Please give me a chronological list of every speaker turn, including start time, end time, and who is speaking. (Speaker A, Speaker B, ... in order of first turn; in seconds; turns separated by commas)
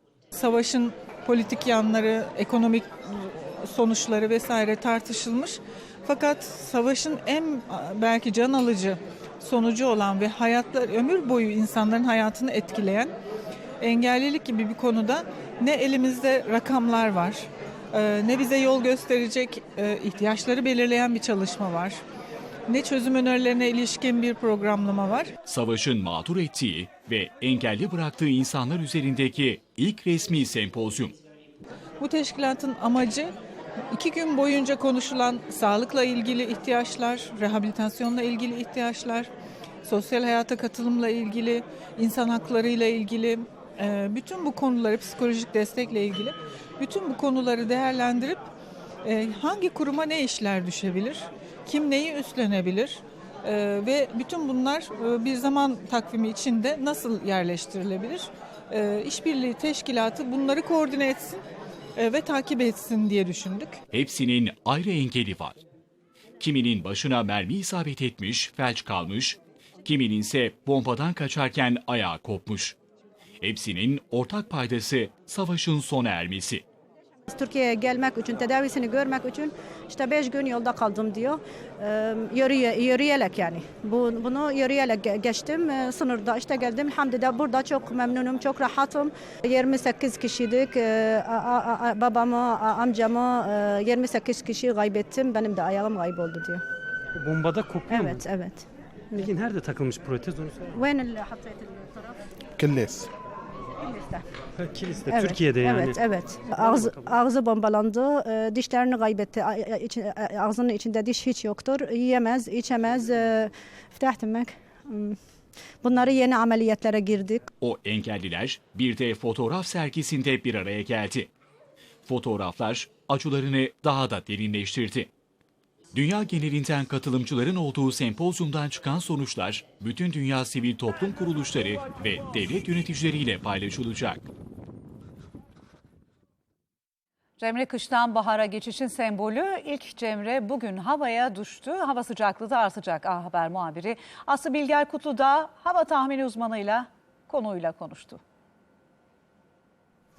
Speaker A: 0.3-13.1, Speaker A: 13.8-22.0, Speaker A: 22.7-25.3, Speaker B: 25.5-31.2, Speaker A: 32.0-33.3, Speaker A: 33.9-39.3, Speaker A: 39.9-48.5, Speaker A: 49.0-61.4, Speaker A: 62.0-63.8, Speaker B: 63.9-65.6, Speaker B: 66.4-72.8, Speaker B: 73.4-76.6, Speaker C: 77.3-96.6, Speaker D: 97.2-98.3, Speaker C: 97.9-98.7, Speaker D: 99.2-100.8, Speaker C: 100.8-102.1, Speaker C: 103.9-104.2, Speaker D: 104.6-107.2, Speaker C: 105.9-115.2, Speaker C: 115.8-117.4, Speaker B: 117.6-121.3, Speaker B: 122.1-125.1, Speaker B: 125.9-134.3, Speaker E: 137.4-148.2